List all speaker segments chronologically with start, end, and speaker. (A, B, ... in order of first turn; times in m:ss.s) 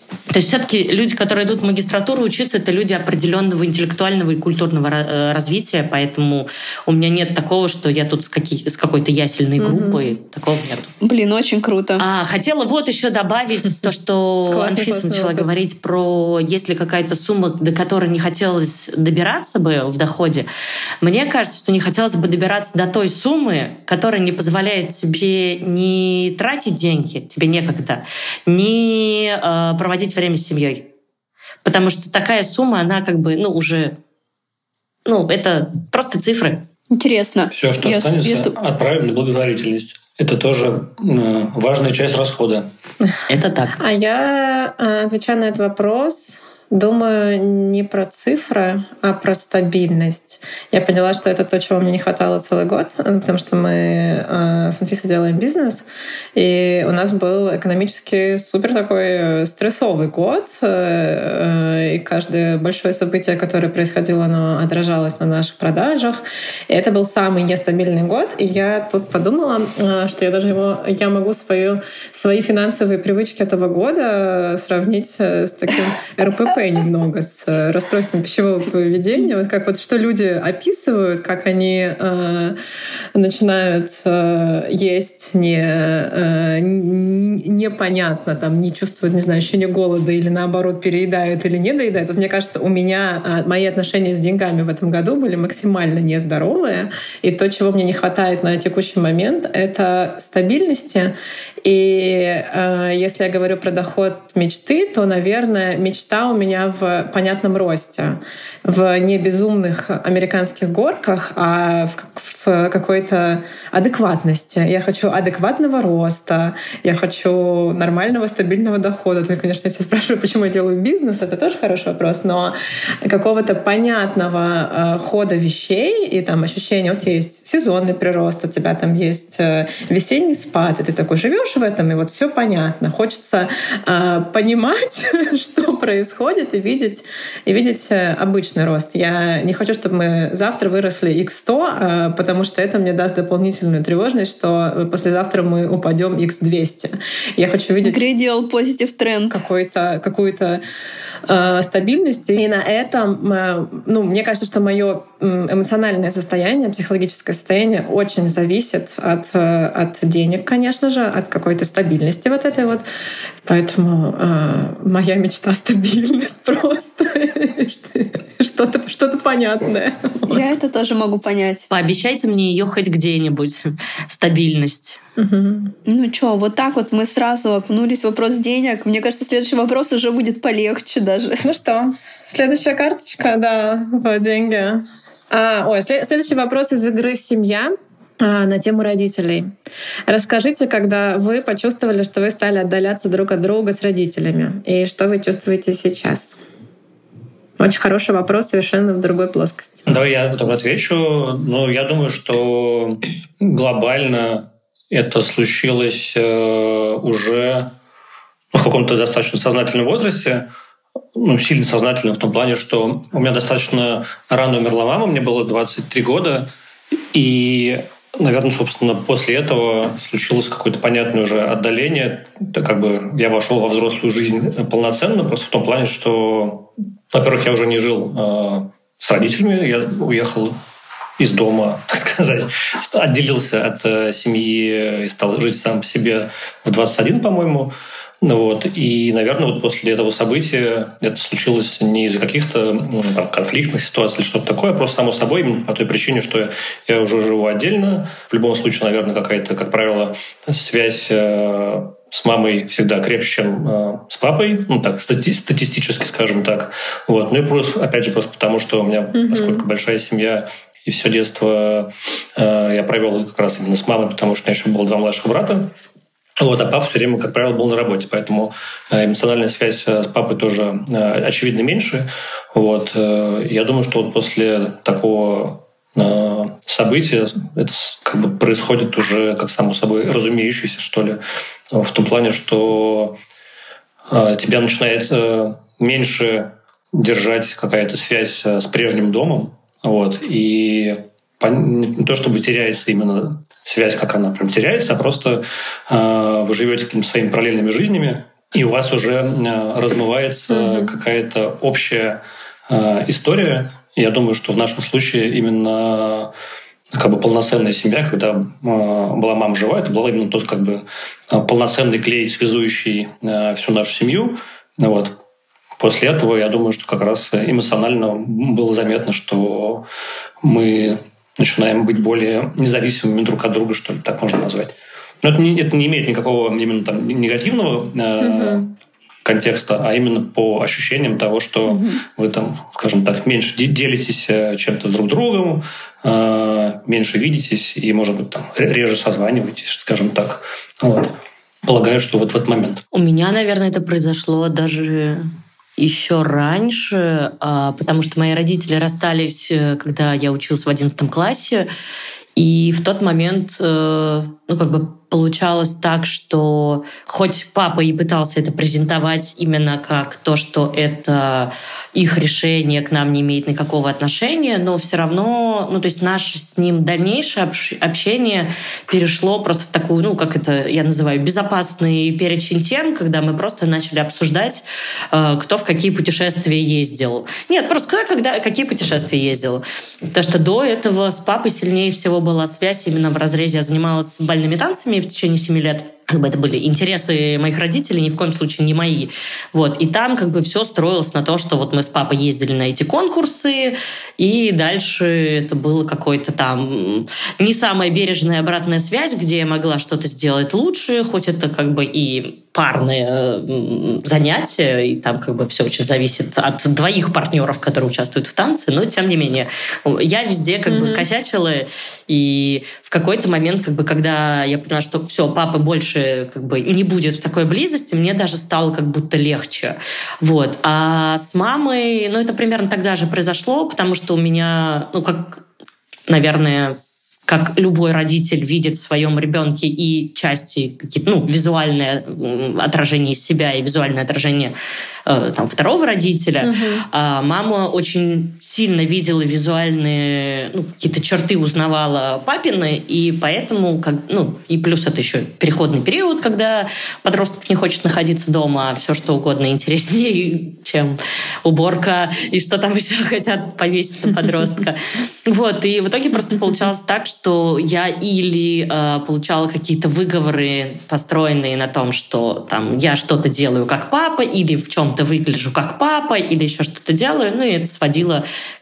0:00.3-0:10.9 A
0:09.6-0:10.1 B
0:11.0-0:12.0 C
0:12.0-0:20.5 A
0:14.5-0:15.5 B
0:21.0-0:30.9 A
0:31.6-0:34.0 A
0:35.0-0:36.6 A
0:36.9-0:38.5 C
0:37.5-0:42.7 D
0:43.3-0:43.8 A
0:43.8-1:22.6 B
1:23.1-2:28.0 B
2:27.8-2:29.4 C
2:29.3-2:30.6 B
2:31.3-2:42.8 B
2:43.4-2:50.5 B
2:50.3-2:51.6 C
2:51.7-2:55.0 A
2:55.2-2:55.7 B
2:55.8-3:01.4 C
3:01.4-3:09.5 B
3:10.1-3:16.4 B
3:17.6-3:19.9 B
3:19.8-3:27.7 D
3:28.5-3:30.5 D
3:31.1-3:36.5 D
3:37.1-3:50.6 D
3:51.2-4:25.7 D
4:19.1-4:19.6 B
4:26.4-4:41.2 D
4:41.7-4:43.2 D
4:44.1-5:06.3 D
5:00.5-5:00.9 B
5:06.9-5:15.2 D
5:15.8-5:19.8 D
5:20.4-5:28.7 D
5:28.2-5:28.7 B
5:29.2-5:42.8 D
5:42.9-5:51.7 A
5:52.4-7:05.4 A
6:50.7-6:51.0 B
7:06.1-7:14.5 A
7:15.0-7:48.2 A
7:16.4-7:16.8 B